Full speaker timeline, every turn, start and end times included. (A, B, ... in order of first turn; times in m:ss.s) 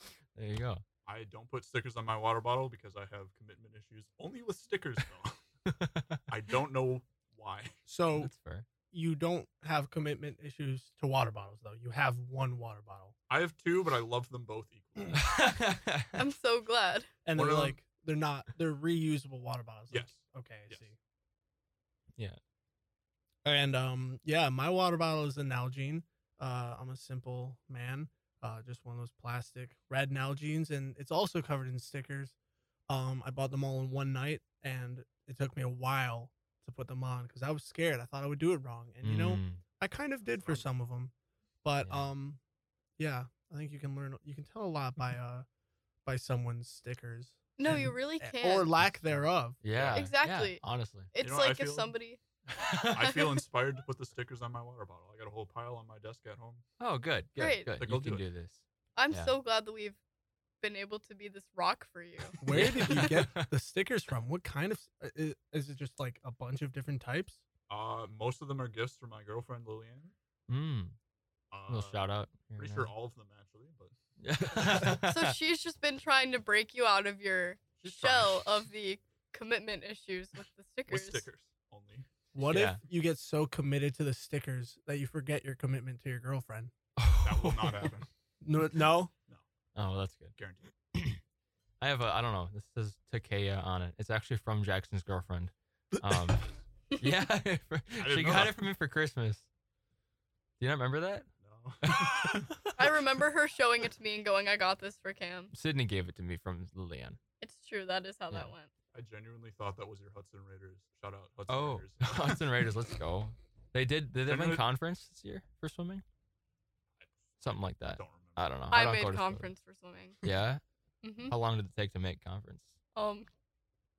0:00.3-0:00.8 A
0:01.0-0:05.4 B
0:05.7-0:06.2 A
0:06.3-0:07.8 B
0:07.9-0:08.3 C
0:08.1-0:08.7 A
0:08.9-0:13.1 C
0:13.3-0:15.4 B
0:15.2-0:16.2 A
0:16.1-0:17.1 D
0:17.2-0:21.0 C
0:17.3-0:17.8 B
0:19.9-0:20.8 B
0:23.4-0:32.3 C
0:32.9-0:41.1 C
0:39.0-0:39.6 A
0:40.2-0:40.7 B
0:41.6-0:42.4 C
0:41.8-0:42.1 A
0:43.0-0:45.4 C
0:46.0-0:49.6 C
0:47.6-0:48.7 D
0:48.8-0:51.1 A
0:49.7-0:50.1 B
0:49.9-0:50.6 D
0:51.1-0:52.2 D
0:51.2-0:51.9 B
0:52.5-0:52.9 A
0:52.9-0:56.6 B
0:56.8-0:59.3 A
0:57.4-0:57.8 D
0:57.8-0:58.3 B
0:59.0-1:00.0 D
1:00.6-1:03.0 D
1:02.4-1:07.4 C
1:02.5-1:03.5 A
1:07.7-1:10.1 B
1:10.5-1:11.0 A
1:11.5-1:13.9 B
1:11.7-1:12.9 A
1:14.2-1:15.3 A
1:15.0-1:21.3 D
1:17.8-1:18.6 B
1:20.9-1:22.1 B
1:22.3-1:26.7 C
1:22.4-1:22.8 A
1:27.0-1:27.9 A
1:27.2-1:28.1 B
1:28.4-1:29.1 C
1:29.7-1:30.3 A
1:30.3-1:30.7 B
1:30.9-1:31.2 A
1:31.8-1:39.5 A
1:35.9-1:36.4 C
1:38.0-1:38.6 B
1:40.6-1:41.3 A
1:41.4-1:42.4 B
1:41.8-1:42.5 A
1:42.7-1:45.5 D
1:45.5-1:47.2 A
1:47.4-1:48.7 D
1:48.9-1:52.7 B
1:51.5-1:56.0 A
1:54.2-1:54.6 B
1:57.0-1:58.4 B
1:57.4-1:59.5 A
1:58.7-2:00.2 D
2:00.2-2:00.6 A
2:01.0-2:01.3 D
2:01.2-2:02.7 A
2:03.0-2:03.3 D